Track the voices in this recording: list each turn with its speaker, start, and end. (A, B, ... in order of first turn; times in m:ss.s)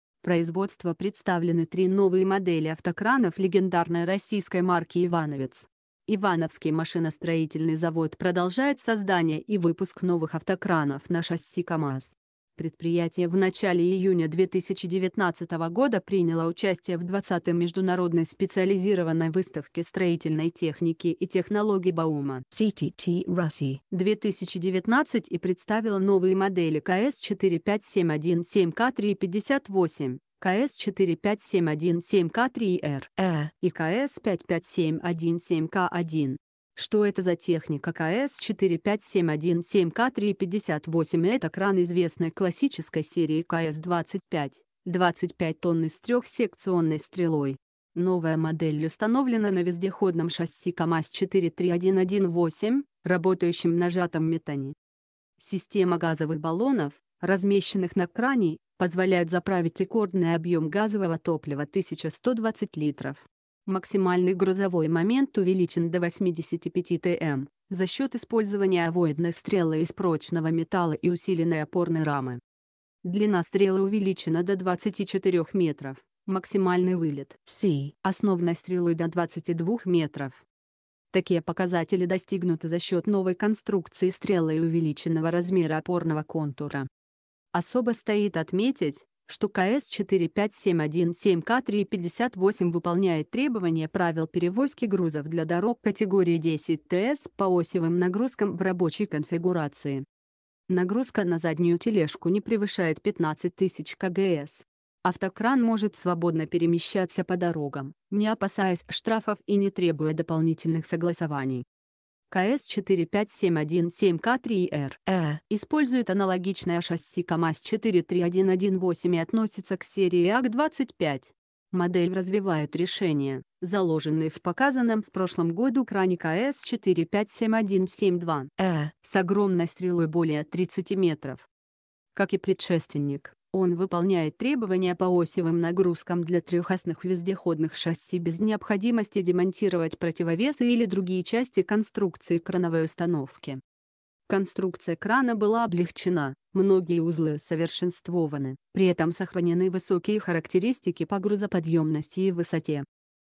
0:00.2-0:22.4 A
0:22.5-0:23.8 B
0:23.9-0:54.7 A
0:33.2-0:33.5 B
0:55.4-1:12.4 A
1:13.0-1:17.4 A
1:17.5-1:17.9 B
1:18.0-1:20.4 A
1:21.1-1:26.9 A
1:27.5-1:40.0 A
1:40.7-1:51.6 A
1:52.3-2:11.5 A
1:55.1-1:55.4 B
2:08.6-2:08.9 B
2:12.1-2:23.6 A
2:24.3-2:32.8 A